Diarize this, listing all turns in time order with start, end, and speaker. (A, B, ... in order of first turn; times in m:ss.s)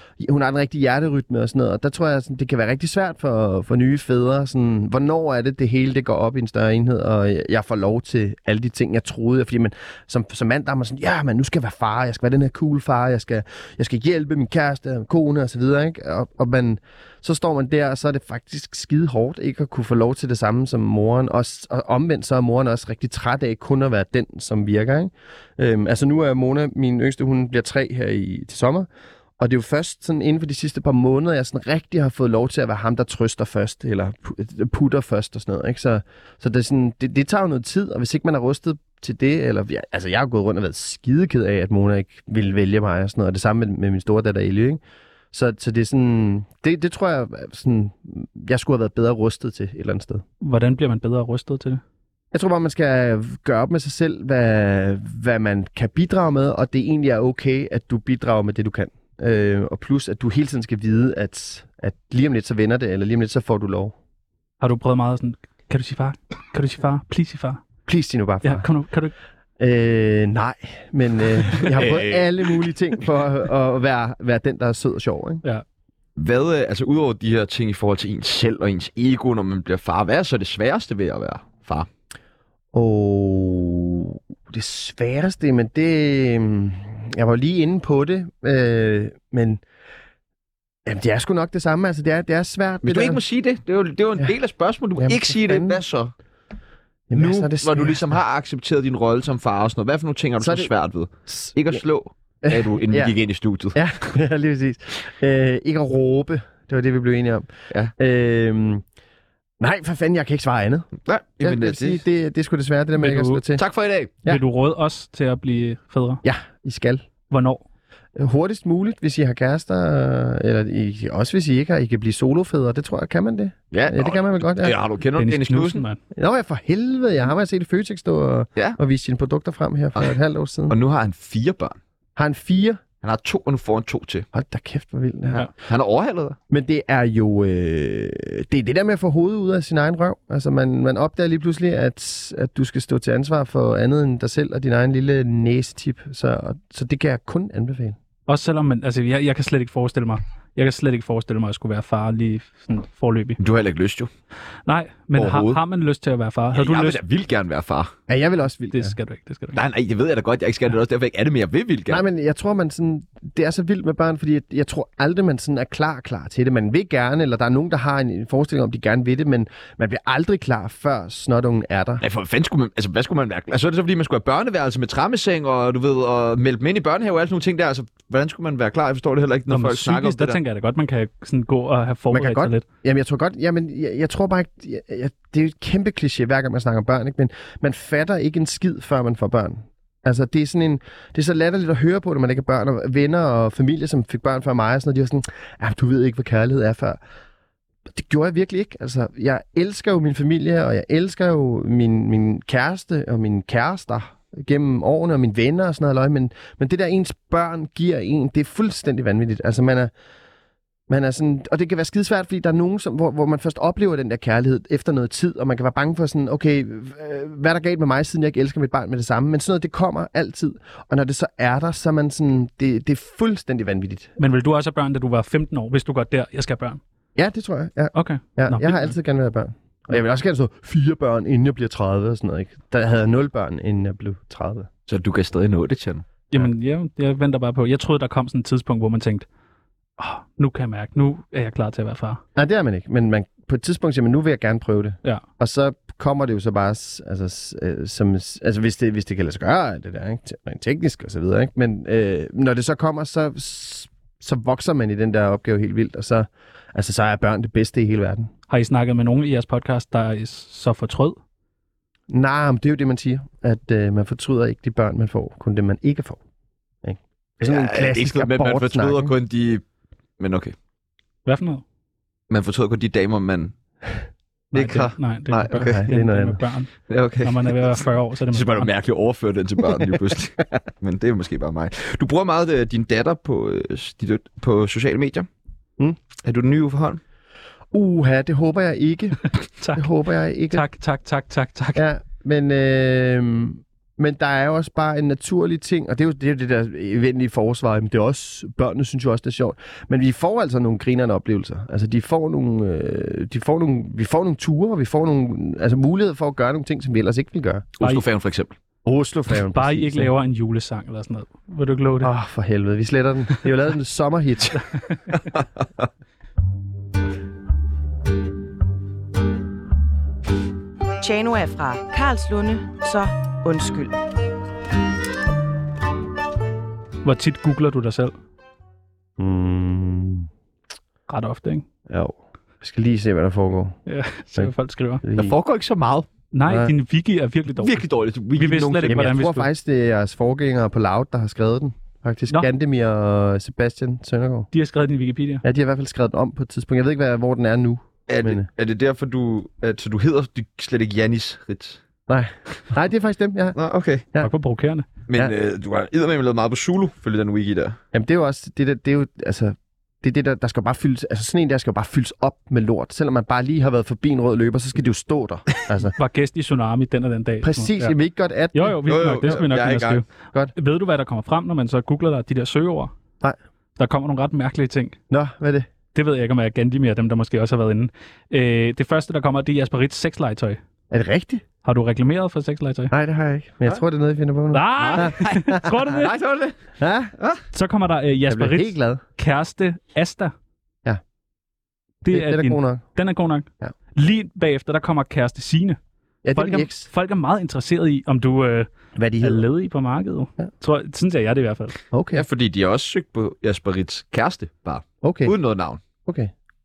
0:00.2-0:28.9 A
0:29.4-0:44.8 A
0:45.3-0:50.2 A
0:50.4-0:51.8 B
0:52.3-1:04.0 A
1:04.6-1:07.6 B
1:07.9-1:08.7 A
1:08.4-1:09.1 B
1:09.6-1:15.4 A
1:11.6-1:12.3 C
1:16.2-1:21.9 C
1:22.7-1:29.6 A
1:30.9-1:33.2 A
1:32.8-1:36.1 C
1:35.0-1:35.8 A
1:37.1-1:38.0 A
1:37.1-1:44.1 C
1:40.4-1:41.8 A
1:42.4-1:43.2 A
1:43.7-1:48.8 A
1:49.6-1:50.9 A
1:51.0-1:52.0 C
1:51.4-1:53.6 A
1:53.0-1:53.4 B
1:53.6-1:54.1 C
1:54.3-1:56.2 B
1:56.2-1:57.1 A
1:57.3-1:57.6 B
1:58.2-2:04.8 A
2:03.7-2:05.8 C
2:05.2-2:06.0 B
2:06.1-2:10.8 A
2:10.7-2:11.8 C
2:12.2-2:12.8 A
2:13.0-2:14.3 C
2:14.3-2:15.5 A
2:15.6-2:16.4 C
2:16.5-2:28.0 A
2:28.3-2:33.4 B
2:33.4-2:34.1 C
2:34.7-2:37.0 B
2:35.2-2:35.6 C
2:36.5-2:37.9 C
2:38.1-2:39.0 A
2:38.7-2:39.6 B
2:39.6-2:42.0 C
2:41.9-2:52.0 A
2:52.0-3:00.4 C
2:59.5-3:02.6 B
3:02.1-3:17.0 A
3:17.9-3:29.9 A
3:30.9-3:44.1 A
3:44.2-3:46.8 B
3:47.2-3:54.7 A
3:48.0-3:48.9 B
3:54.9-3:56.1 C
3:56.3-3:59.3 B
4:00.0-4:02.2 B
4:02.4-4:18.3 A
4:18.5-4:21.2 B
4:22.1-4:26.2 A
4:26.8-4:29.2 A
4:27.4-4:29.6 C
4:30.2-4:30.6 C
4:31.3-4:31.6 B
4:32.3-4:33.6 C
4:34.5-4:38.7 B
4:34.5-4:35.9 C
4:35.6-4:36.4 A
4:36.9-4:37.8 C
4:38.3-4:45.3 C
4:46.2-4:47.0 C
4:47.7-4:49.2 A
4:49.6-4:49.9 B
4:49.7-4:50.6 A
4:50.5-4:51.8 B
4:51.8-5:07.7 A
5:07.8-5:08.6 C
5:08.8-5:10.1 A
5:09.5-5:12.1 B
5:12.0-5:14.6 A
5:21.0-5:24.0 D
5:27.0-5:28.2 B
5:29.2-5:30.3 A
5:31.1-5:31.6 B
5:31.9-5:33.8 A
5:33.9-5:35.0 B
5:35.0-5:35.4 A
5:35.2-5:36.1 C
5:36.3-5:39.5 B
5:36.5-5:36.7 A
5:37.6-5:39.2 C
5:38.9-5:44.5 A
5:44.5-5:45.4 B
5:45.4-5:48.5 A
5:48.1-5:51.8 C
5:52.1-5:53.6 A
5:53.6-5:54.0 C
5:54.2-5:54.9 B
5:55.1-5:57.8 C
5:57.9-6:05.9 A
6:06.0-6:08.0 B
6:07.4-6:09.4 A
6:08.5-6:12.9 B
6:08.8-6:10.0 C
6:13.8-6:15.0 B
6:15.1-6:15.7 A
6:15.9-6:20.6 B
6:20.9-6:21.4 A
6:21.6-6:22.9 B
6:22.9-6:25.6 A
6:24.5-6:26.2 B
6:24.8-6:26.6 C
6:26.8-6:27.1 A
6:27.2-6:27.4 C
6:27.5-6:30.3 B
6:28.3-6:29.0 A
6:32.0-6:35.8 B
6:32.1-6:32.9 A
6:36.2-6:36.9 A
6:36.4-6:38.7 B
6:39.0-6:39.4 A
6:39.2-6:41.8 B
6:41.9-6:42.2 A
6:42.1-6:45.8 C
6:45.0-6:45.3 A
6:46.0-6:46.3 A